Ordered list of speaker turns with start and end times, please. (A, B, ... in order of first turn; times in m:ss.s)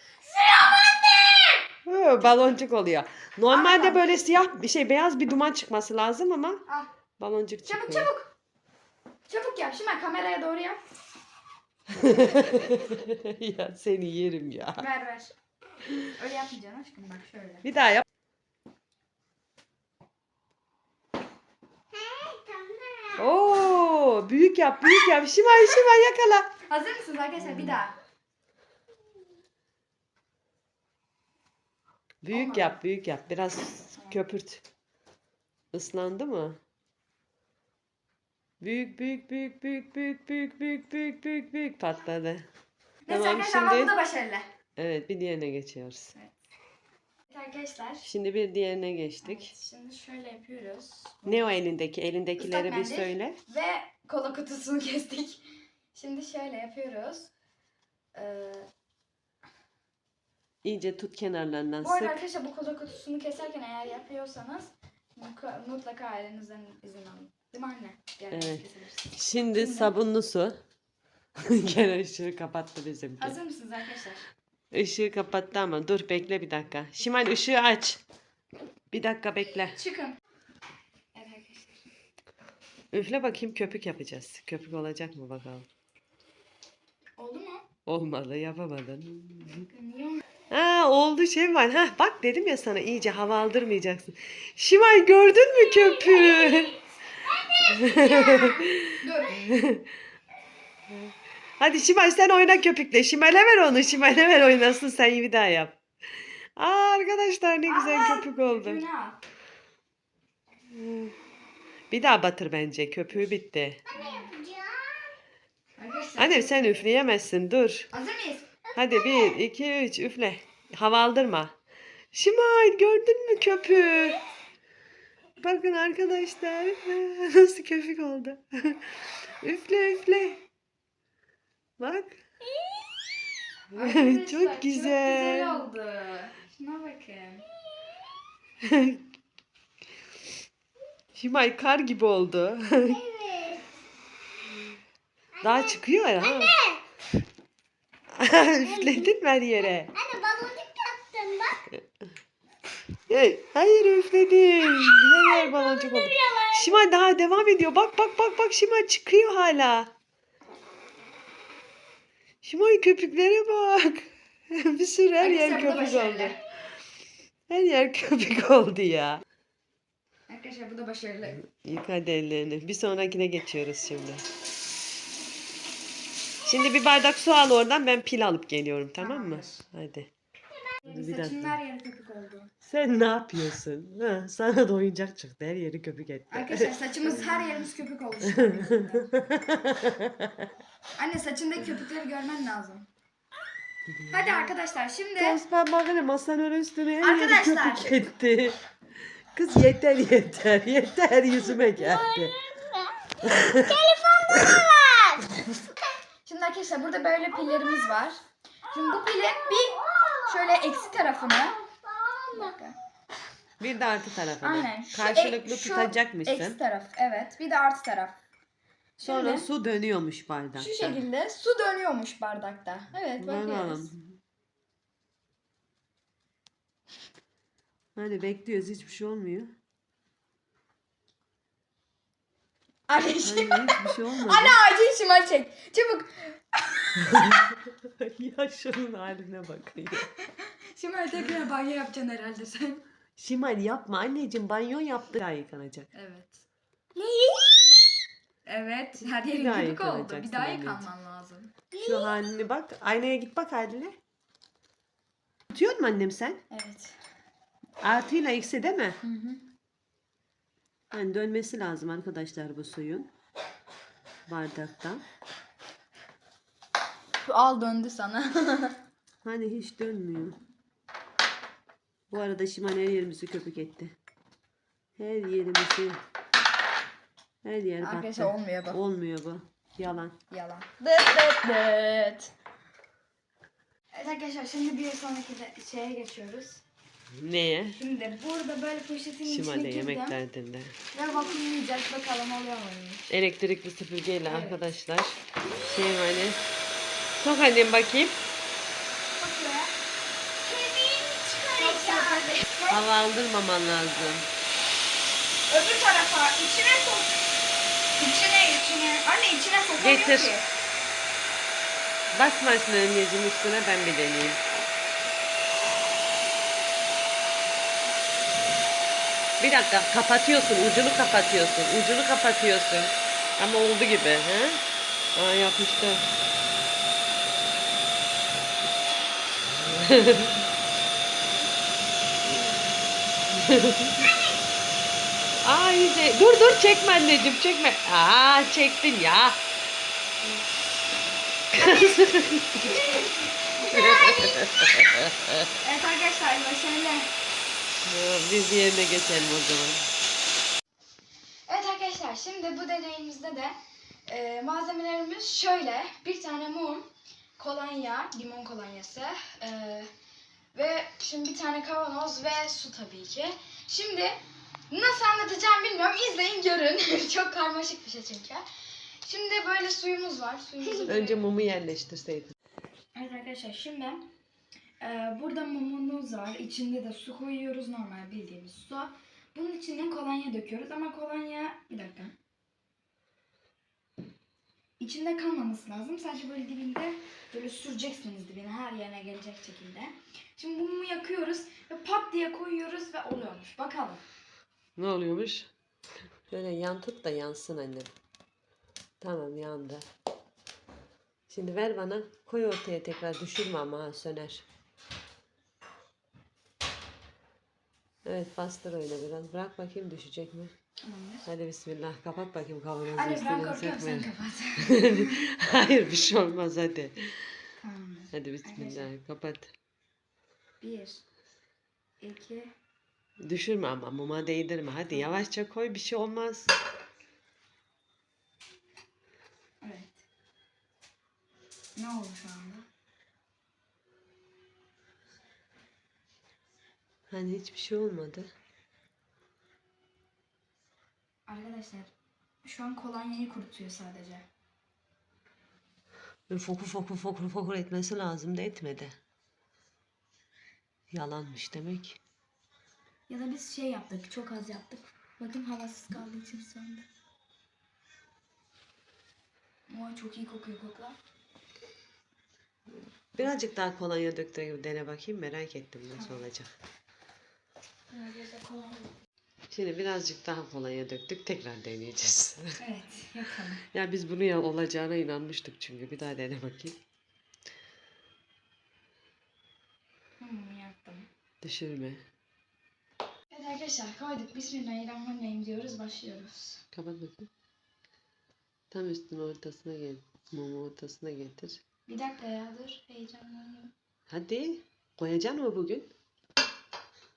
0:00.3-0:01.1 A
0:01.1-0:01.6 B
0:01.8-0:06.6 C
0:03.5-0:04.0 A
0:07.2-0:08.1 C
0:07.6-0:08.3 A
0:09.3-0:10.8 A
0:11.9-0:14.9 C
0:14.8-0:15.3 A
0:16.0-0:17.6 A
0:17.6-0:18.0 C
0:21.9-0:23.2 B
0:23.2-0:26.5 C
0:26.7-0:27.9 A
0:32.2-0:34.6 C
0:32.3-0:32.8 A
0:35.7-0:36.6 C
0:38.6-0:42.5 C
0:43.0-0:44.4 A
0:43.1-0:43.9 C
0:44.8-0:46.1 C
0:47.3-0:48.1 A
0:48.0-0:49.5 C
0:49.2-0:51.5 A
0:51.2-0:53.4 C
0:52.4-0:57.3 A
0:58.1-0:58.7 A
1:00.6-1:02.2 C
1:01.8-1:09.9 A
1:08.3-1:10.6 C
1:11.4-1:13.4 C
1:13.2-1:14.2 A
1:14.7-1:18.0 C
1:18.9-1:19.8 C
1:19.7-1:20.2 A
1:21.1-1:21.8 A
1:22.9-1:25.7 C
1:27.2-1:27.6 A
1:27.8-1:29.7 C
1:29.5-1:30.2 A
1:30.5-1:36.8 C
1:35.7-1:38.6 B
1:37.6-1:39.9 C
1:39.0-1:39.4 A
1:40.9-1:45.8 C
1:46.6-1:48.8 C
1:47.6-1:49.2 A
1:50.7-1:51.1 C
1:51.9-1:53.8 C
1:53.9-1:55.1 B
1:53.9-1:54.3 A
1:55.8-1:56.8 A
1:56.2-1:57.9 C
1:57.9-1:58.4 A
1:58.7-1:59.4 B
1:58.7-2:01.5 C
2:02.1-2:04.2 C
2:05.4-2:10.4 C
2:11.8-2:12.2 C
2:13.7-2:15.6 C
2:13.7-2:17.4 A
2:18.6-2:19.0 C
2:21.1-2:23.0 C
2:22.9-2:23.6 B
2:25.4-2:26.8 B
2:25.4-2:26.6 C
2:28.1-2:29.9 C
2:28.6-2:29.1 B
2:29.8-2:31.6 B
2:33.1-2:39.9 C
2:35.0-2:36.8 B
2:42.4-2:46.4 C
2:45.2-2:46.4 A
2:47.5-2:49.2 C
2:50.3-2:51.4 A
2:51.4-2:54.2 C
2:56.4-3:00.1 C
2:59.0-2:59.6 A
3:00.8-3:02.5 A
3:00.9-3:01.6 C
3:02.6-3:07.4 C
3:06.3-3:09.1 A
3:08.2-3:10.5 C
3:11.0-3:12.9 A
3:13.9-3:14.6 C
3:14.1-3:15.4 A
3:15.2-3:18.6 C
3:17.0-3:18.0 A
3:19.3-3:22.3 C
3:21.5-3:25.7 B
3:23.2-3:23.8 C
3:26.2-3:28.2 A
3:28.7-3:31.6 A
3:29.0-3:32.6 B
3:32.3-3:32.8 A
3:33.6-3:36.6 C
3:34.4-3:38.2 A
3:39.0-3:39.5 A
3:39.0-3:41.0 C
3:40.6-3:43.9 A
3:43.2-3:44.2 C
3:48.0-3:49.5 C
3:52.9-3:57.4 A
3:53.2-3:54.6 C
3:57.0-4:00.1 C
4:00.2-4:02.8 A
4:03.2-4:05.9 C
4:05.9-4:06.4 A
4:06.9-4:08.0 B
4:08.4-4:11.5 A
4:09.2-4:10.9 C
4:11.7-4:12.1 B
4:11.8-4:14.0 C
4:15.5-4:16.4 C
4:16.5-4:17.0 A
4:17.8-4:19.0 C
4:19.0-4:19.5 A
4:20.9-4:23.1 C
4:24.3-4:25.0 C
4:27.2-4:28.8 A
4:29.2-4:30.4 C
4:32.1-4:33.9 C
4:35.0-4:36.0 C
4:37.4-4:40.2 C
4:37.8-4:38.8 A
4:40.3-4:42.3 A
4:43.9-4:46.6 A
4:47.1-4:47.8 C
4:47.8-4:50.2 A
4:49.2-4:50.8 C
4:50.9-4:53.1 A
4:53.1-4:56.4 C
4:54.2-4:54.6 A
4:57.2-4:58.2 C
4:59.2-4:59.7 A
5:00.4-5:02.3 B
5:00.5-5:02.8 A
5:02.7-5:04.3 C
5:05.5-5:07.2 A
5:08.0-5:10.4 A
5:09.8-5:10.3 C
5:12.1-5:14.4 C
5:19.4-5:24.6 C
5:25.2-5:26.1 C
5:29.6-5:30.4 C
5:33.3-5:34.1 C
5:35.4-5:39.4 C
5:41.5-5:43.0 C
5:41.6-5:44.4 A
5:43.6-5:45.4 C
5:45.6-5:47.1 A
5:47.8-5:49.9 C
5:51.5-5:53.5 A
5:54.1-5:59.9 A
6:00.5-6:04.2 A
6:04.7-6:08.4 A
6:09.0-6:11.2 A
6:10.8-6:12.3 C
6:12.9-6:14.0 A
6:14.8-6:22.1 A
6:24.8-6:34.0 A
6:34.8-6:35.5 C
6:36.3-6:37.9 C
6:39.0-6:39.8 C
6:41.3-6:44.4 C
6:48.0-6:50.5 C
6:50.8-6:51.2 A
6:51.2-6:57.2 C
6:52.9-6:55.2 A
6:57.6-6:58.9 A
6:58.1-6:59.5 C
7:00.6-7:01.0 A
7:02.0-7:02.5 A
7:03.2-7:06.5 C
7:04.9-7:05.2 A
7:09.6-7:10.0 A
7:11.8-7:12.6 A
7:17.1-7:18.3 C
7:21.3-7:21.9 A
7:22.4-7:24.2 A
7:26.3-7:28.9 C
7:30.9-7:32.0 C
7:33.1-7:36.8 A
7:39.7-7:41.0 A
7:42.7-7:46.5 C
7:46.0-7:46.2 A
7:47.9-7:48.9 A
7:49.5-7:52.6 C
7:52.6-7:53.6 A
7:53.7-7:56.8 C
8:00.2-8:01.1 A
8:01.4-8:02.0 C
8:03.3-8:06.6 A
8:06.7-8:07.3 C
8:08.7-8:11.6 C
8:11.9-8:13.7 A
8:14.1-8:15.9 C